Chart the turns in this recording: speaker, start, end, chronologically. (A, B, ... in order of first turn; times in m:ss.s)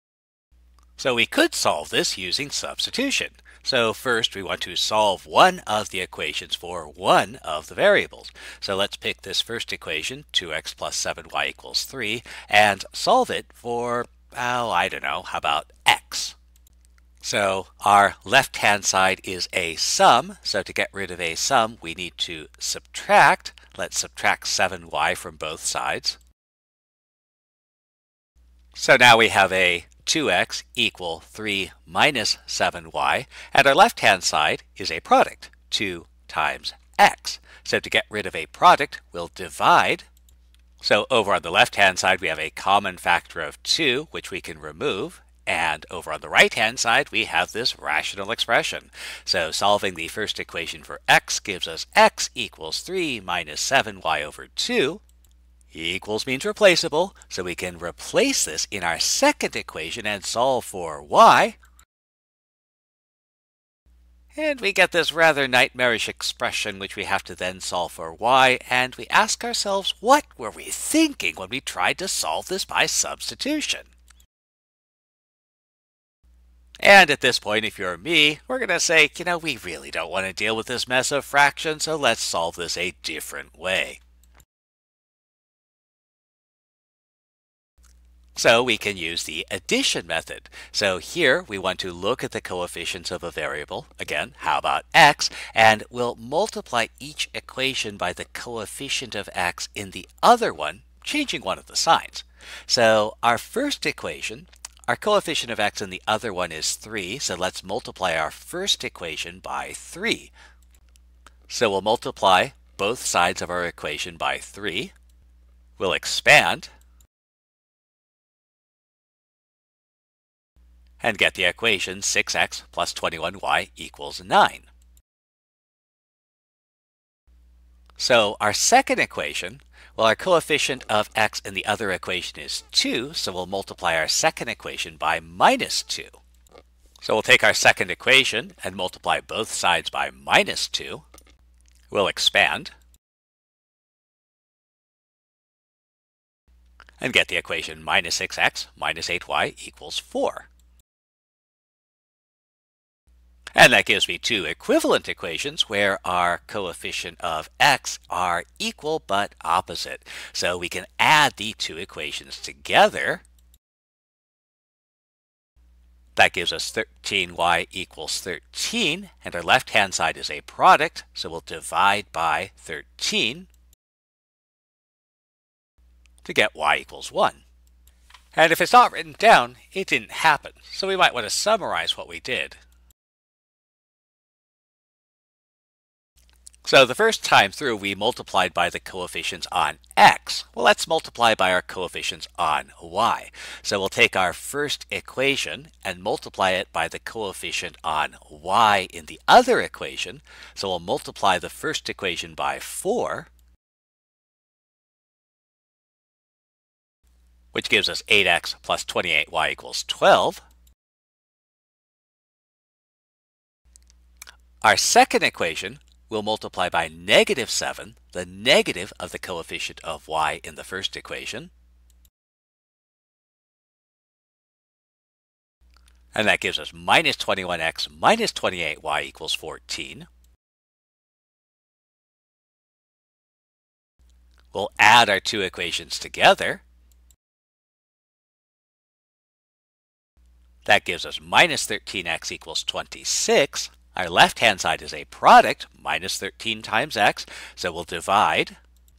0:01.0-0:16.4 A
0:17.2-0:26.2 A
0:28.7-0:40.1 A
0:40.8-0:55.0 A
0:55.7-1:01.6 A
1:04.3-1:13.9 A
1:16.8-1:24.0 A
1:28.4-1:50.3 A
1:51.5-1:54.9 A
1:55.8-1:56.7 A
2:01.0-2:04.7 A
2:08.0-2:16.2 A
2:17.0-2:21.0 A
2:21.9-2:22.7 A
2:27.0-2:30.5 A
2:33.5-2:43.2 A
2:46.2-2:53.5 A
2:56.2-2:57.4 A
2:58.3-3:02.6 A
3:06.6-3:23.3 A
3:27.5-3:30.4 A
3:34.6-3:41.5 A
3:46.1-3:50.1 A
3:54.5-3:56.6 A
4:00.6-4:08.6 A